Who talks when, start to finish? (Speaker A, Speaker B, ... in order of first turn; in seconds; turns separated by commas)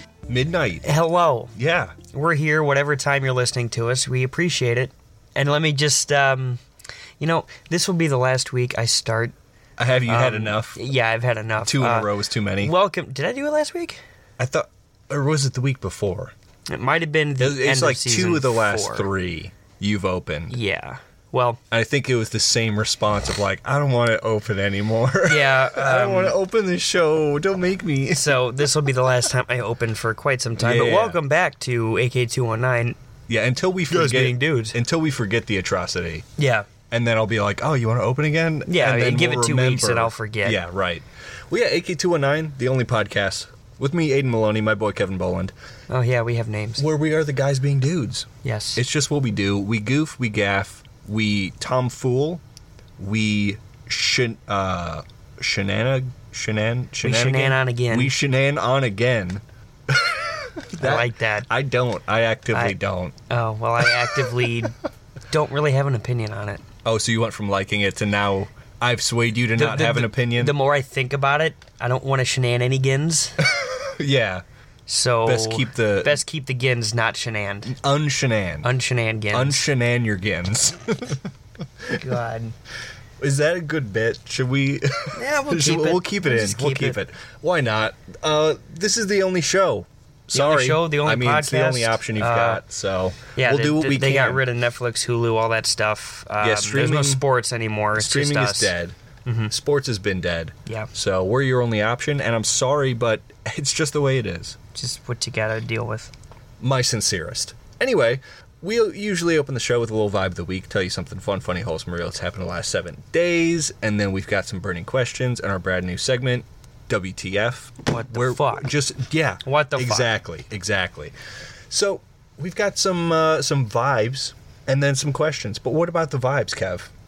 Speaker A: 0.3-0.9, Speaker B: 0.8-1.5, Speaker A: 1.5-1.9, Speaker B: 2.1-6.6, Speaker B: 7.2-9.3, Speaker A: 9.8-10.8, Speaker B: 10.1-14.0, Speaker A: 11.6-12.7, Speaker A: 14.4-16.3, Speaker B: 16.7-19.1, Speaker A: 17.4-20.6, Speaker B: 20.5-21.6, Speaker A: 21.7-28.6, Speaker B: 25.2-26.4, Speaker B: 28.1-33.0, Speaker A: 30.6-31.2, Speaker A: 33.3-36.2, Speaker B: 33.9-34.8, Speaker B: 36.4-36.7, Speaker A: 36.9-45.5, Speaker B: 38.6-40.6, Speaker B: 45.9-46.8, Speaker A: 46.8-52.4, Speaker B: 48.4-48.8, Speaker A: 53.0-63.1, Speaker B: 57.0-58.1, Speaker B: 60.8-61.5, Speaker B: 62.5-62.8, Speaker B: 63.3-64.8, Speaker A: 63.8-64.7, Speaker B: 65.3-66.6, Speaker A: 66.8-70.5, Speaker B: 69.5-73.4, Speaker A: 73.4-74.4, Speaker B: 74.9-77.8, Speaker A: 75.2-76.2, Speaker A: 77.7-78.7, Speaker B: 78.6-79.7, Speaker A: 79.3-81.3, Speaker B: 81.8-82.5, Speaker A: 83.2-94.4, Speaker B: 85.1-87.0, Speaker B: 90.3-92.6, Speaker B: 93.3-98.7, Speaker A: 96.4-97.2, Speaker A: 98.0-99.0, Speaker B: 99.2-99.5, Speaker A: 99.5-104.6, Speaker B: 104.7-106.1, Speaker A: 106.6-121.1, Speaker B: 117.8-118.7, Speaker B: 119.4-120.1, Speaker A: 121.7-126.9